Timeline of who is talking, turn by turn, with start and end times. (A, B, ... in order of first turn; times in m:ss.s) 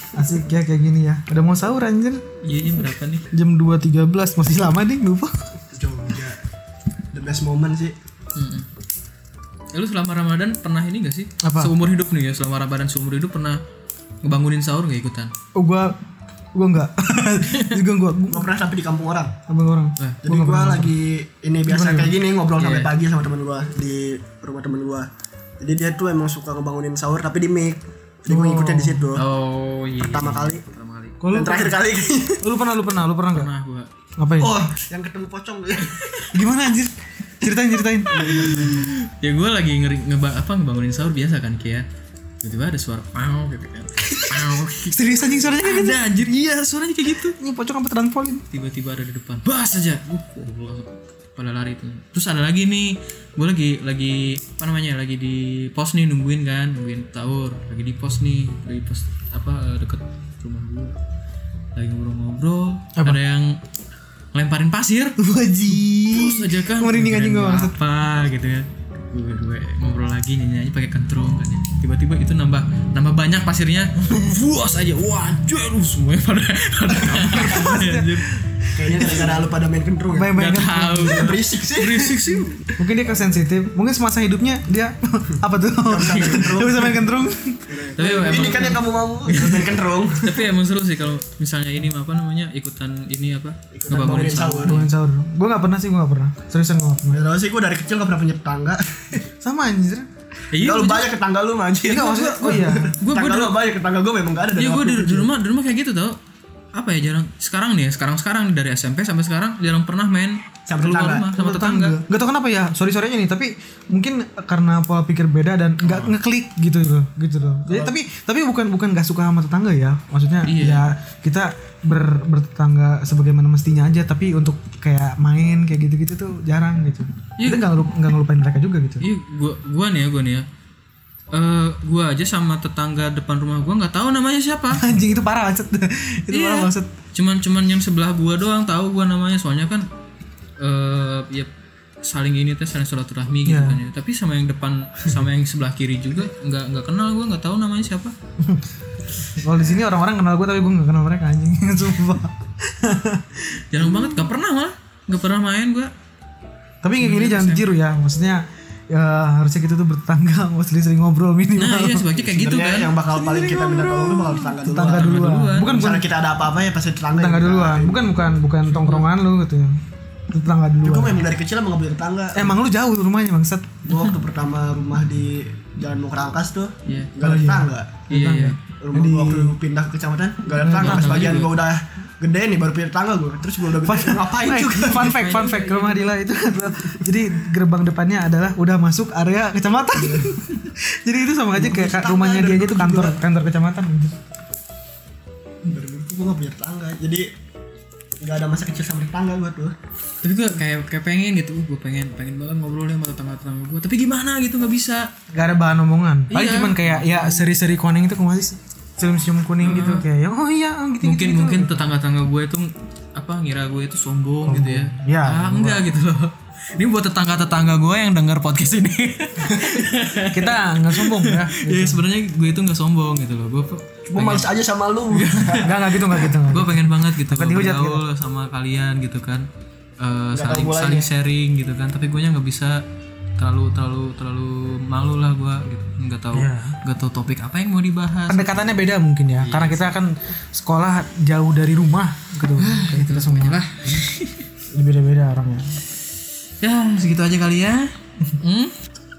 0:00.1-0:05.5 A
0:02.4-0:03.3 B
0:05.7-0:06.4 C
0:07.1-0:08.0 C
0:08.4-0:08.7 B
0:09.7-0:13.6 B
0:11.4-0:11.7 A
0:14.2-0:15.3 B
0:15.6-0:16.0 A
0:16.6-0:18.5 A
0:17.5-0:17.8 B
0:18.3-0:19.3 C
0:19.5-0:21.0 A
0:20.2-0:25.1 C
0:21.7-0:22.2 A
0:22.6-0:22.9 B
0:25.6-0:29.2 C
0:28.3-0:29.1 A
0:29.2-0:31.2 B
0:30.0-0:30.6 C
0:31.2-0:31.8 A
0:31.3-0:32.4 C
0:32.4-0:33.5 A
0:33.3-0:33.9 B
0:34.2-0:34.6 A
0:34.4-0:36.0 C
0:35.8-0:36.3 B
0:36.3-0:38.8 A
0:38.1-0:38.9 C
0:38.2-0:41.8 B
0:42.4-0:47.4 B
0:44.9-0:46.0 A
0:47.4-0:48.4 A
0:48.5-1:01.0 B
1:01.8-1:03.6 B
1:04.3-1:05.2 B
1:05.2-1:07.8 A
1:06.0-1:18.3 B
1:16.9-1:19.4 A
1:18.7-1:20.4 C
1:20.1-1:21.4 A
1:20.3-1:22.7 B
1:21.0-1:22.4 C
1:22.8-1:27.8 A
1:25.8-1:27.1 C
1:27.7-1:30.4 C
1:28.0-1:34.9 B
1:33.7-1:34.8 C
1:34.6-1:37.2 A
1:37.1-1:39.2 C
1:39.4-1:40.1 A
1:40.5-1:41.1 B
1:40.6-1:45.3 C
1:41.8-1:43.0 A
1:43.0-1:43.6 B
1:44.6-1:46.2 B
1:46.7-1:52.0 B
1:50.7-1:51.3 C
1:51.3-2:09.0 A
1:55.8-1:56.1 B
2:00.4-2:00.9 B
2:07.4-2:07.7 B
2:09.0-2:10.5 B
2:11.3-2:14.9 B
2:14.7-2:16.9 A
2:16.3-2:19.9 B
2:20.6-2:21.5 B
2:22.0-2:28.2 B
2:23.4-2:23.8 A
2:28.4-2:28.7 A
2:29.3-2:34.3 A
2:33.7-2:35.9 B
2:36.8-2:42.1 A
2:37.0-2:37.7 B
2:41.6-2:43.0 B
2:42.2-2:48.0 C
2:43.2-2:46.1 A
2:44.7-2:45.8 B
2:47.2-2:51.3 A
2:48.7-2:49.1 B
2:50.8-2:52.6 C
2:52.4-2:53.8 A
2:53.9-2:58.0 C
2:53.9-2:54.1 B
2:56.8-2:57.1 B
2:57.2-2:59.6 A
2:58.1-2:58.6 B
2:58.8-3:05.2 C
3:00.6-3:01.4 A
3:00.7-3:01.6 B
3:03.8-3:14.2 A
3:04.9-3:06.2 B
3:10.0-3:10.4 C
3:11.5-3:13.2 C
3:15.7-3:17.3 C
3:18.2-3:19.8 C
3:20.2-3:25.1 B
3:25.3-3:31.9 A
3:26.3-3:27.5 B
3:29.6-3:30.1 B
3:31.0-3:44.5 B
3:34.4-3:35.9 A
3:40.3-3:42.0 A
3:44.1-3:45.7 C
3:45.1-3:49.5 B
3:45.6-3:48.0 A
3:50.0-3:52.8 B
3:50.3-3:51.1 C
3:53.4-3:58.6 B
3:56.3-3:56.8 A
3:58.3-4:03.6 A
3:59.4-3:59.9 B
4:02.6-4:04.5 B
4:04.7-4:05.8 A
4:06.6-4:08.7 B